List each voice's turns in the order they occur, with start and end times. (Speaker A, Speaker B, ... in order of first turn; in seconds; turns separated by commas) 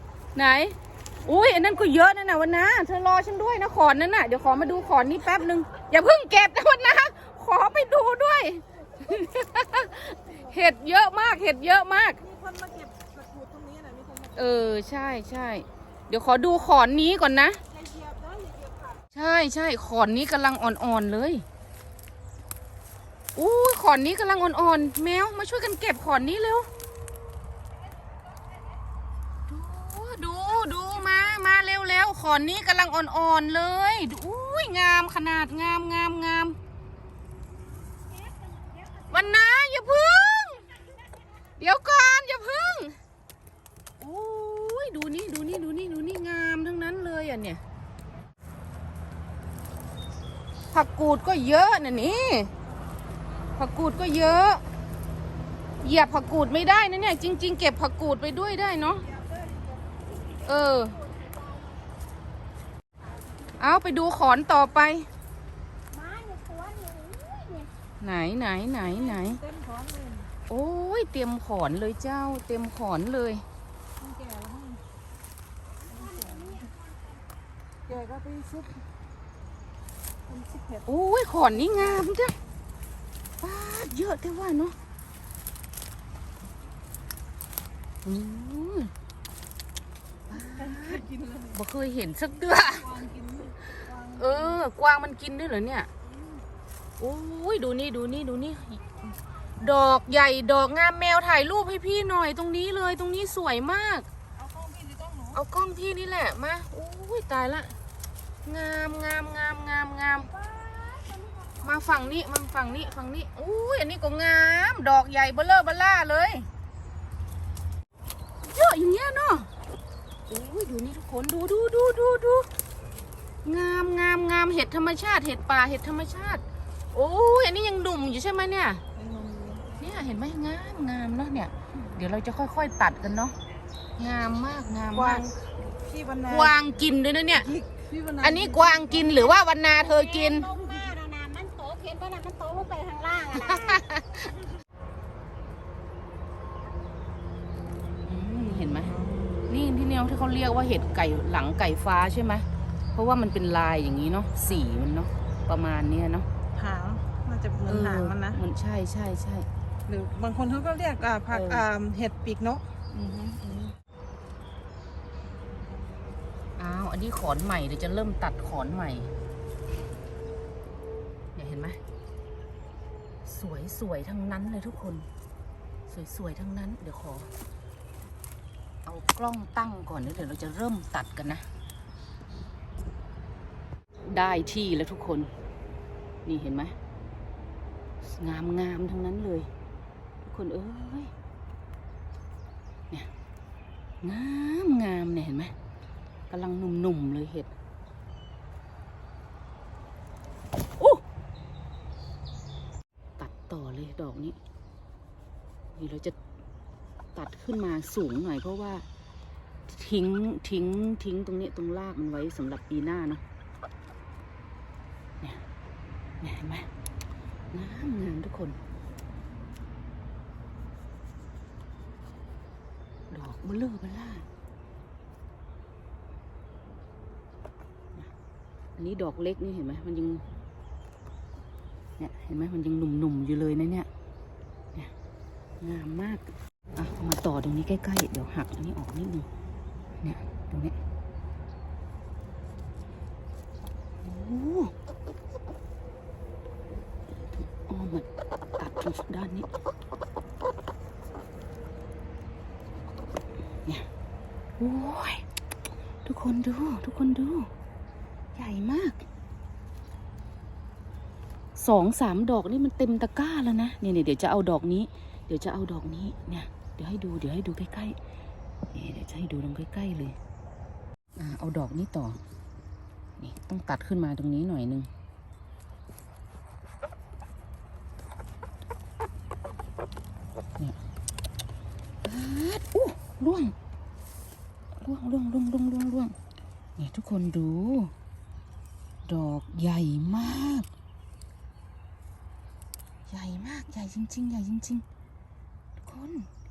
Speaker A: 0.3-12.2, Speaker B: 12.2-14.4, Speaker A: 14.3-17.6, Speaker B: 17.8-19.0, Speaker A: 19.1-21.4, Speaker A: 23.4-26.7, Speaker A: 29.5-36.6, Speaker A: 39.1-40.6, Speaker A: 41.6-42.9, Speaker A: 44.0-47.6, Speaker A: 50.7-52.5, Speaker A: 53.5-54.6, Speaker A: 55.8-59.0, Speaker A: 60.4-61.0, Speaker C: 60.9-61.8, Speaker A: 63.6-65.1, Speaker C: 65.9-67.7, Speaker A: 68.0-69.4, Speaker B: 68.8-70.3, Speaker A: 70.5-73.4, Speaker B: 74.0-74.8, Speaker C: 75.9-76.7, Speaker B: 76.0-76.5, Speaker B: 77.9-78.8, Speaker B: 80.3-80.8, Speaker A: 80.8-82.3, Speaker A: 83.4-84.8, Speaker A: 88.0-88.9, Speaker A: 90.3-93.0, Speaker B: 90.5-91.5, Speaker B: 92.8-94.4, Speaker A: 93.9-95.9, Speaker A: 97.0-104.1, Speaker B: 104.4-105.4, Speaker A: 105.3-107.7, Speaker A: 108.4-110.3, Speaker C: 110.4-111.5, Speaker A: 111.6-116.5, Speaker A: 118.4-119.5, Speaker A: 120.3-122.5, Speaker A: 123.4-128.8, Speaker B: 128.9-129.8, Speaker A: 129.8-133.3, Speaker A: 134.0-135.2, Speaker B: 134.9-136.6, Speaker A: 136.2-137.5, Speaker B: 137.4-139.1, Speaker A: 138.2-140.5, Speaker C: 139.8-143.8, Speaker A: 143.3-144.2, Speaker A: 148.1-156.3, Speaker B: 148.8-149.4, Speaker B: 156.5-158.4, Speaker A: 157.6-159.4, Speaker B: 159.9-162.6, Speaker A: 161.3-161.7, Speaker A: 162.9-163.7, Speaker A: 166.6-169.1, Speaker A: 171.3-171.8, Speaker A: 173.2-175.1, Speaker A: 175.9-177.3, Speaker A: 178.8-181.4, Speaker A: 184.1-185.3, Speaker A: 186.2-186.7, Speaker A: 188.0-189.5, Speaker A: 190.2-191.1, Speaker A: 194.0-195.5, Speaker A: 196.3-197.5, Speaker A: 203.2-204.4, Speaker A: 205.7-206.1, Speaker A: 207.1-208.8, Speaker A: 209.7-213.2, Speaker A: 216.2-216.7, Speaker A: 217.5-218.6, Speaker A: 223.1-224.2, Speaker A: 228.8-230.2, Speaker A: 232.0-233.9, Speaker A: 235.6-239.3, Speaker A: 240.0-240.8, Speaker A: 244.0-244.7, Speaker A: 247.5-248.1, Speaker A: 248.6-249.5, Speaker A: 254.6-255.2, Speaker A: 256.0-257.5, Speaker A: 258.4-259.1, Speaker A: 261.5-267.9, Speaker A: 268.7-270.1, Speaker A: 271.2-272.2, Speaker A: 273.2-274.9, Speaker A: 282.0-283.5, Speaker A: 284.8-286.1, Speaker A: 286.8-287.9, Speaker A: 289.1-290.7, Speaker A: 293.1-294.8, Speaker A: 295.8-296.3